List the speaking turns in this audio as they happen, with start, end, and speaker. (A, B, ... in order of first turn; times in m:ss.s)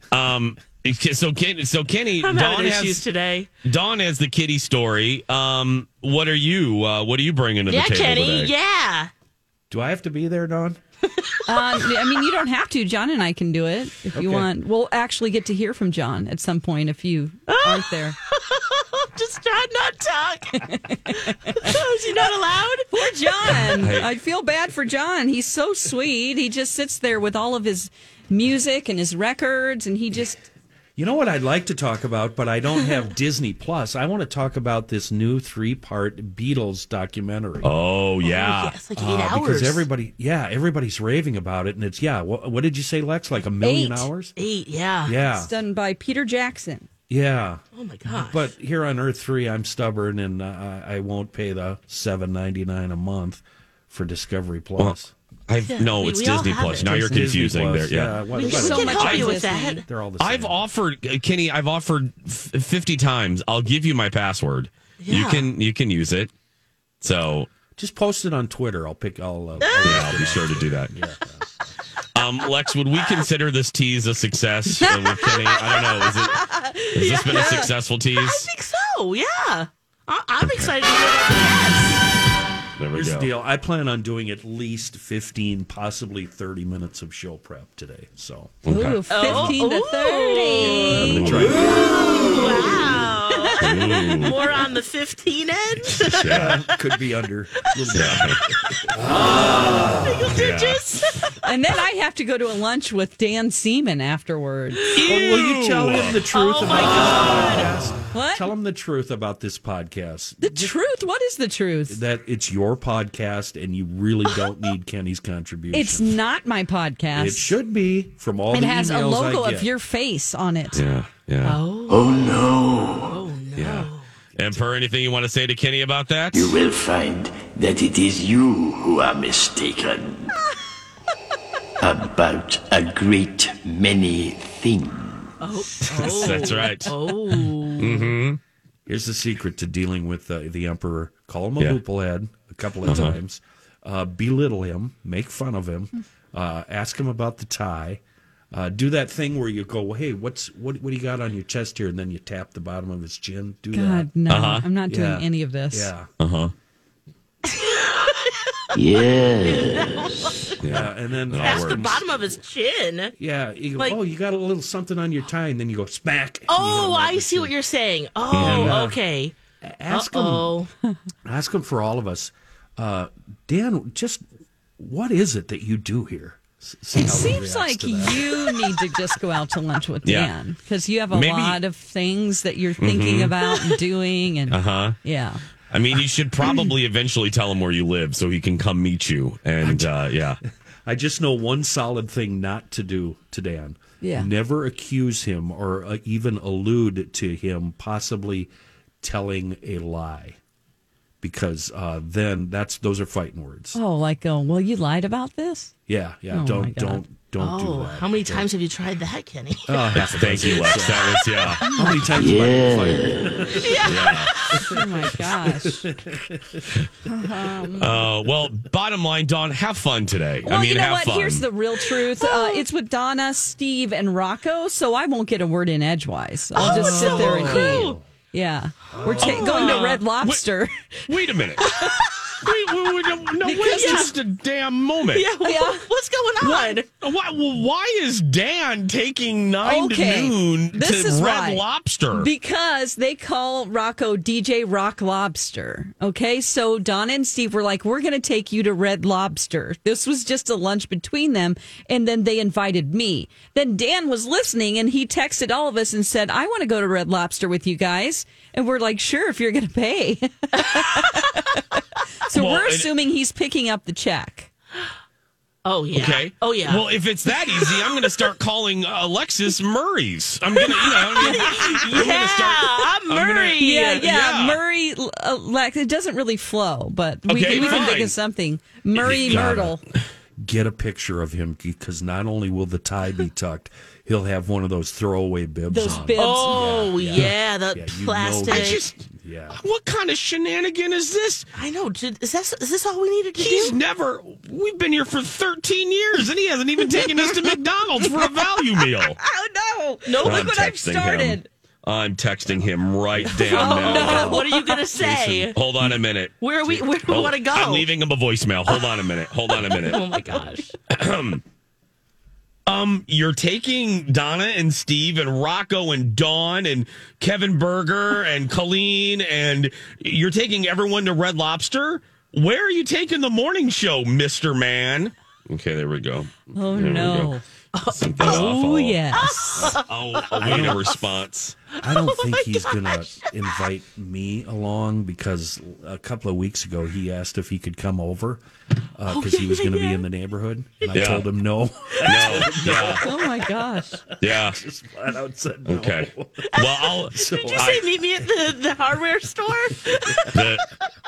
0:00.1-0:03.0 A
0:02.2-0:03.5 B
0:03.6-0:08.5 A
0:07.7-0:09.1 B
0:09.7-0:10.8 C
0:11.5-0:18.2 D
0:14.2-0:14.5 C
0:17.5-0:22.9 B
0:20.6-0:21.8 D
0:22.9-0:30.4 D
0:23.6-0:24.1 A
0:31.0-0:37.7 C
0:37.6-0:38.8 A
0:38.2-0:39.9 B
0:39.0-0:44.3 C
0:43.6-0:44.1 D
0:44.4-0:45.2 B
0:45.0-0:45.5 C
0:45.3-0:46.9 D
0:47.1-0:55.1 C
0:47.7-0:48.5 B
0:55.5-0:58.2 A
0:55.6-0:57.1 B
0:56.9-1:00.6 C
0:56.9-0:57.2 D
0:58.3-0:59.8 B
0:58.4-0:59.8 D
0:58.9-0:59.4 A
1:00.2-1:06.3 A
1:05.0-1:05.5 B
1:07.0-1:07.5 A
1:07.8-1:11.6 C
1:09.6-1:10.0 B
1:09.8-1:11.0 A
1:12.2-1:18.5 A
1:14.8-1:22.1 B
1:20.4-1:20.8 A
1:22.8-1:23.3 A
1:22.9-1:28.6 C
1:28.6-1:29.6 A
1:28.7-1:31.2 D
1:29.1-1:36.6 B
1:30.9-1:31.7 A
1:30.9-1:32.3 C
1:33.4-1:34.3 D
1:33.6-1:34.4 A
1:36.0-1:36.6 A
1:36.1-1:40.1 C
1:37.9-1:38.4 A
1:39.9-1:41.3 B
1:40.3-1:40.8 A
1:41.4-1:44.9 D
1:45.0-1:46.2 A
1:45.0-1:50.8 C
1:46.3-1:47.7 B
1:48.1-1:48.5 D
1:50.4-1:52.0 D
1:51.9-1:56.2 C
1:55.7-1:57.5 D
1:57.1-1:59.7 C
1:58.5-2:00.8 D
2:00.7-2:01.6 A
2:01.4-2:02.0 B
2:01.9-2:03.2 E
2:03.1-2:04.1 B
2:03.6-2:06.6 A
2:06.3-2:10.3 E
2:11.8-2:15.3 E
2:15.4-2:18.1 B
2:15.8-2:18.4 A
2:16.0-2:16.6 C
2:18.9-2:28.0 C
2:22.8-2:23.2 A
2:28.5-2:34.2 C
2:33.7-2:35.9 D
2:34.3-2:34.6 A
2:34.9-2:36.1 C
2:36.2-2:36.5 A
2:37.5-2:38.6 B
2:38.7-2:40.4 E
2:39.4-2:40.8 B
2:40.6-2:42.1 A
2:40.7-2:42.4 C
2:41.4-2:43.1 B
2:43.2-2:47.6 C
2:46.5-2:49.4 B
2:48.3-2:49.0 C
2:48.3-2:48.9 A
2:49.6-2:50.7 C
2:49.9-2:50.7 B
2:51.2-2:54.2 C
2:54.8-2:58.6 C
2:57.0-3:05.4 D
3:00.0-3:00.3 A
3:01.1-3:01.6 A
3:02.8-3:03.8 A
3:04.5-3:05.0 A
3:05.7-3:10.4 A
3:09.6-3:10.0 C
3:10.9-3:18.5 C
3:14.0-3:14.3 D
3:19.0-3:20.4 C
3:21.2-3:23.8 C
3:23.7-3:25.7 D
3:25.9-3:28.5 C
3:26.3-3:27.0 D
3:27.4-3:31.2 B
3:29.7-3:36.7 C
3:30.0-3:31.8 A
3:31.6-3:32.0 D
3:32.1-3:33.4 E
3:33.6-3:34.7 B
3:33.8-3:34.3 A
3:34.6-3:35.9 D
3:37.1-3:37.9 D
3:37.2-3:38.1 C
3:37.8-3:41.5 A
3:40.4-3:50.9 D
3:42.2-3:42.6 B
3:46.5-3:48.0 B
3:46.6-3:48.0 C
3:48.9-3:49.4 C
3:49.2-3:50.4 A
3:49.2-3:50.0 B
3:51.1-3:55.3 A
3:51.6-3:52.0 B
3:53.4-3:54.1 D
3:53.6-3:54.2 B
3:55.1-3:56.9 B
3:55.4-3:55.9 D
3:56.4-4:02.3 A
3:59.6-4:24.5 D
4:22.3-4:22.9 A
4:25.6-4:27.9 B
4:25.9-4:34.6 A
4:30.6-4:34.1 B
4:31.2-4:31.9 D
4:33.6-4:39.8 D
4:37.3-4:38.2 A
4:39.0-4:39.7 A
4:39.0-4:39.8 C
4:40.4-4:49.6 C
4:45.7-4:46.9 D
4:46.1-4:48.9 B
4:48.5-4:51.5 A
4:51.6-4:53.8 B
4:53.4-4:59.2 A
4:59.2-5:01.5 D
5:00.1-5:00.5 B
5:00.2-5:04.5 A
5:02.5-5:06.0 C
5:03.3-5:05.6 B
5:03.4-5:04.8 D
5:05.4-5:10.1 A
5:06.4-5:07.9 B
5:08.7-5:10.7 B
5:10.9-5:11.4 A
5:12.7-5:27.4 A
5:26.5-5:27.4 D
5:27.7-5:28.5 B
5:27.9-5:29.0 A
5:28.2-5:29.7 D
5:29.1-5:30.9 B
5:29.6-5:31.6 A
5:30.3-5:31.0 C
5:31.7-5:33.3 B
5:31.8-5:38.4 C
5:39.0-5:48.6 C
5:39.1-5:40.1 B
5:40.8-5:41.2 B
5:40.9-5:41.3 A
5:42.0-5:43.1 A
5:42.0-5:42.3 B
5:43.0-5:44.0 D
5:44.2-5:44.6 A
5:45.7-5:47.9 A
5:46.5-5:50.6 B
5:49.5-5:50.6 C
5:50.3-5:50.6 A